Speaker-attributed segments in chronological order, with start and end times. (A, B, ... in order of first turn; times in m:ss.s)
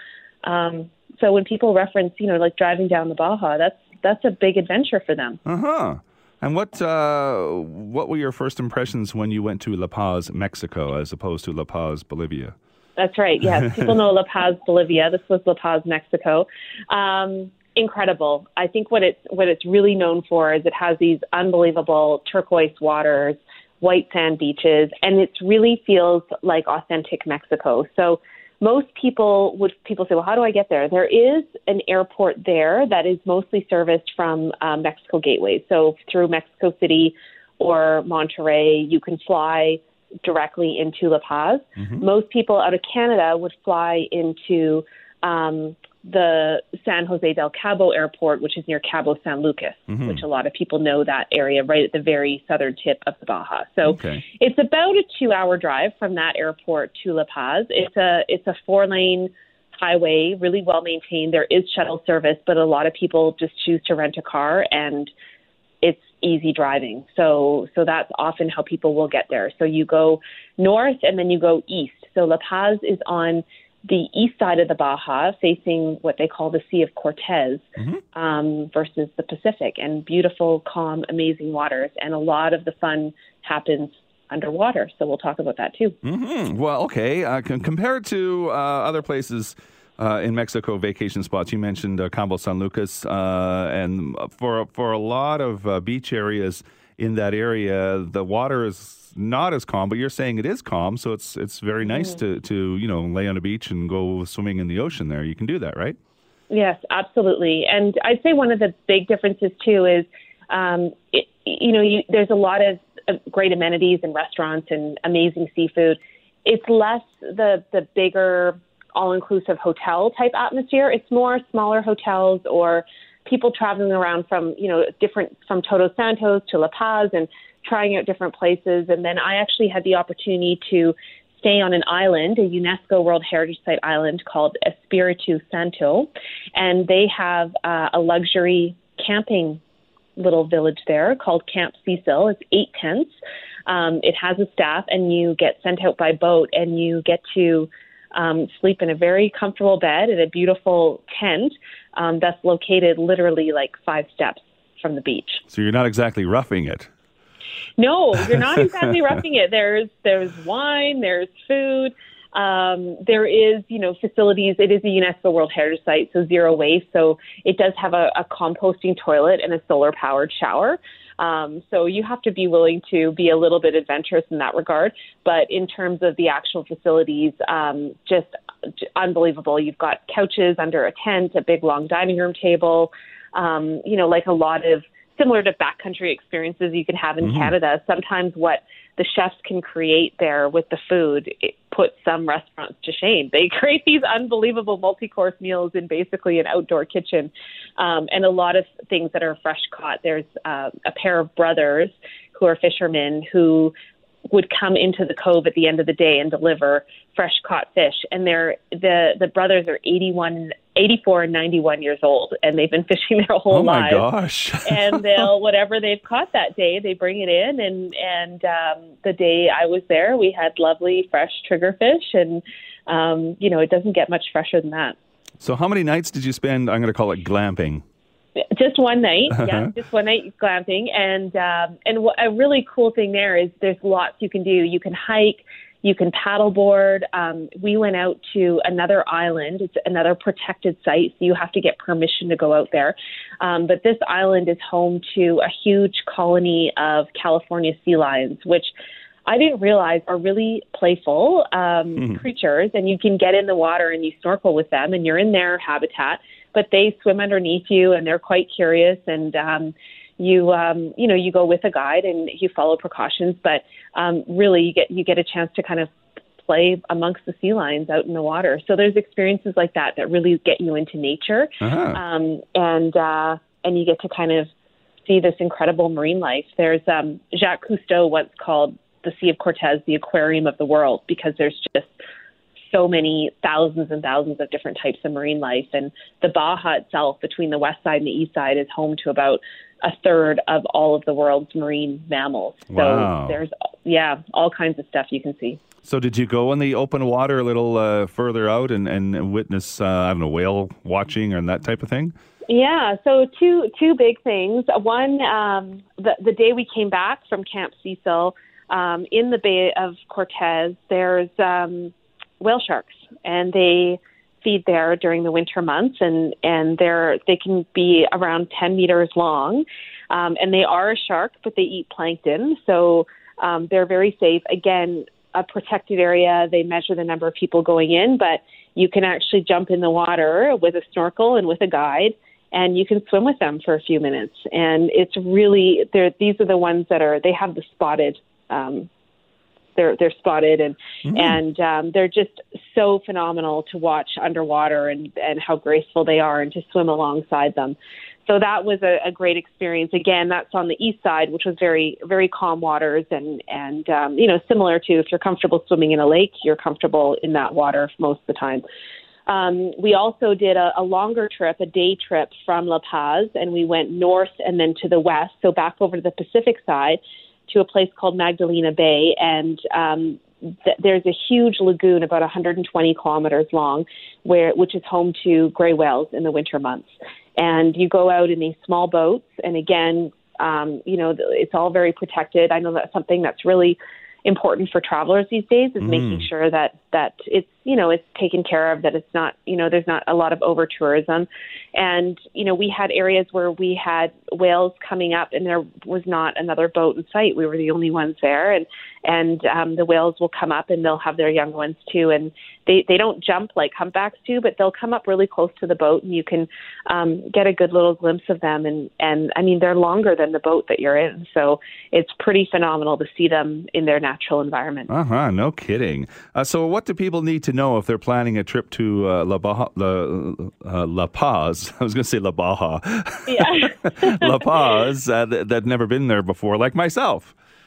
0:00.4-0:05.4 A
0:05.5-0:12.6 B
0:13.0-1:05.1 A
0:41.8-0:42.0 B
0:49.9-0:50.2 B
0:53.8-0:54.2 B
1:05.8-1:26.0 A
1:26.0-1:46.0 B
1:46.5-2:19.6 A
2:20.2-2:23.2 A
2:23.7-2:35.4 A
2:35.5-2:36.9 B
2:37.8-2:58.3 A
2:58.8-3:23.7 A
3:07.2-3:07.5 B
3:24.3-3:34.1 A
3:33.5-3:35.2 B
3:34.6-3:45.0 A
3:45.4-3:47.8 B
3:48.5-4:08.7 A
3:49.3-3:49.7 B
4:09.3-4:34.5 A
4:31.6-4:32.0 B
4:35.0-4:41.9 A
4:42.7-4:55.6 A
4:52.7-4:53.4 B
4:55.8-5:02.1 B
5:02.5-5:38.9 A
5:39.8-5:58.6 A
5:41.1-5:41.4 B
5:59.3-6:54.9 A
6:25.8-6:26.3 B
6:54.9-7:07.3 B
7:03.3-7:04.7 A